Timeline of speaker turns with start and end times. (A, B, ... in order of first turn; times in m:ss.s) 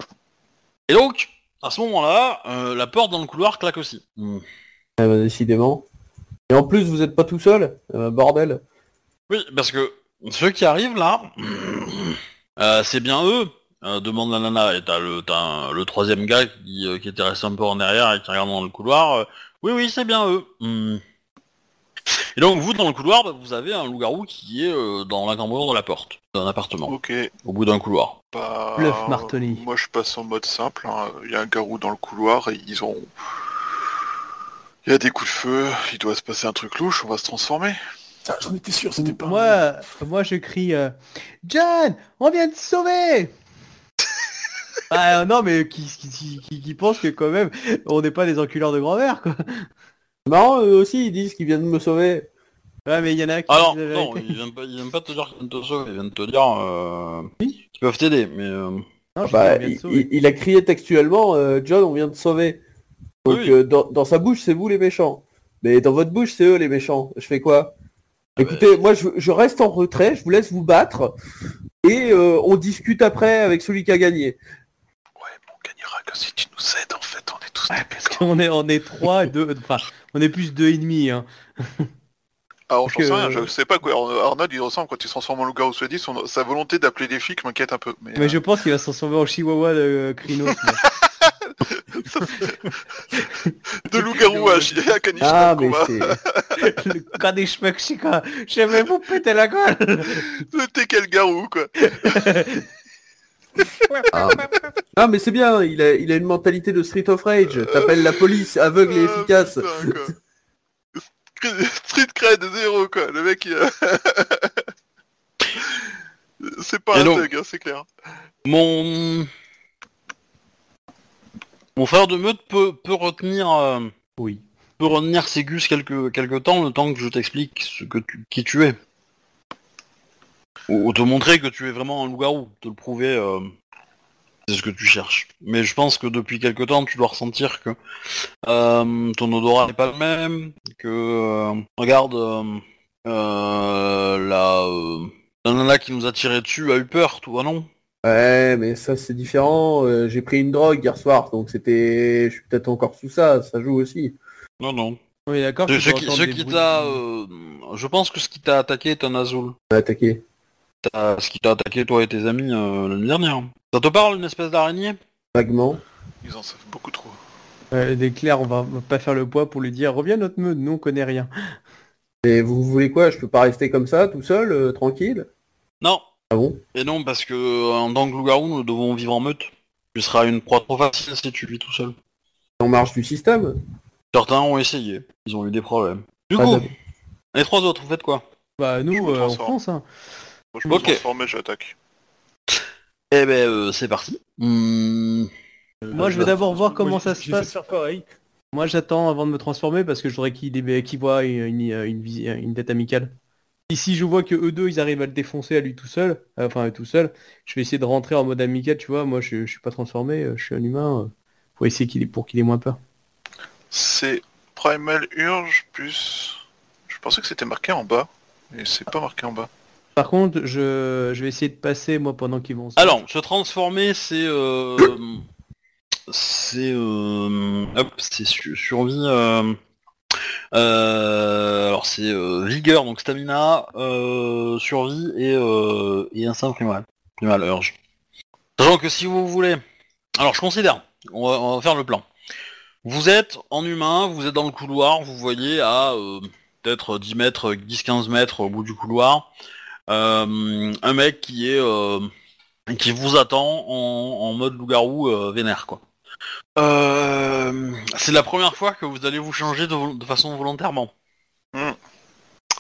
0:00.9-0:04.4 A
0:05.0-0:05.8 B
0:06.5-0:08.6 B
0:09.3-0:21.0 A
0:22.4-0:28.2 A
0:26.9-0:27.3 C
0:28.3-0:33.1 C
0:28.8-0:29.6 D
0:34.8-0:37.8 C
0:38.3-0:39.6 E
0:39.0-0:43.3 D
0:44.9-0:49.7 D
0:50.3-0:52.3 B
0:52.9-0:54.4 D
0:53.5-0:58.8 A
0:59.2-1:00.1 D
0:59.3-1:02.6 B
1:03.2-1:07.7 B
1:03.3-1:03.6 A
1:08.4-1:08.7 A
1:08.4-1:11.1 B
1:11.8-1:14.4 B
1:15.2-1:18.2 C
1:17.7-1:21.9 D
1:22.7-1:28.4 C
1:22.9-1:23.5 D
1:28.2-1:30.8 D
1:30.6-1:32.6 C
1:33.2-1:34.8 D
1:33.9-1:36.6 C
1:35.2-1:36.2 B
1:36.6-1:40.3 D
1:40.3-1:42.2 C
1:41.8-1:42.7 D
1:44.1-1:50.0 B
1:48.8-1:50.2 C
1:51.4-1:54.6 C
1:56.4-1:57.8 C
1:56.9-1:57.3 A
1:58.4-1:59.3 A
2:01.8-2:03.9 A
2:04.8-2:08.8 A
2:10.7-2:13.5 A
2:14.5-2:17.8 A
2:18.4-2:27.7 A
2:28.0-2:34.2 B
2:34.6-2:35.0 A
2:35.3-2:37.0 D
2:35.7-2:39.6 A
2:39.7-2:40.2 B
2:40.8-2:45.0 A
2:45.3-2:45.8 B
2:46.2-2:47.2 C
2:47.7-2:51.3 D
2:52.2-2:55.3 B
2:56.3-2:56.6 B
2:56.7-3:02.0 A
3:02.6-3:03.6 B
3:04.1-3:06.7 A
3:06.4-3:06.7 B
3:07.3-3:08.2 A
3:08.6-3:09.8 D
3:08.9-3:09.5 C
3:10.5-3:11.8 C
3:10.7-3:11.0 A
3:13.1-3:15.3 A
3:15.8-3:18.0 E
3:15.9-3:17.5 D
3:18.5-3:23.1 D
3:23.7-3:32.8 D
3:33.7-3:39.5 C
3:40.0-3:43.0 D
3:42.8-3:45.2 A
3:46.1-3:49.6 A
3:50.5-3:57.7 A
3:58.6-3:59.6 A
4:00.2-4:02.0 A
4:02.8-4:09.3 A
4:09.9-4:12.1 A
4:12.7-4:15.8 A
4:16.6-4:20.9 A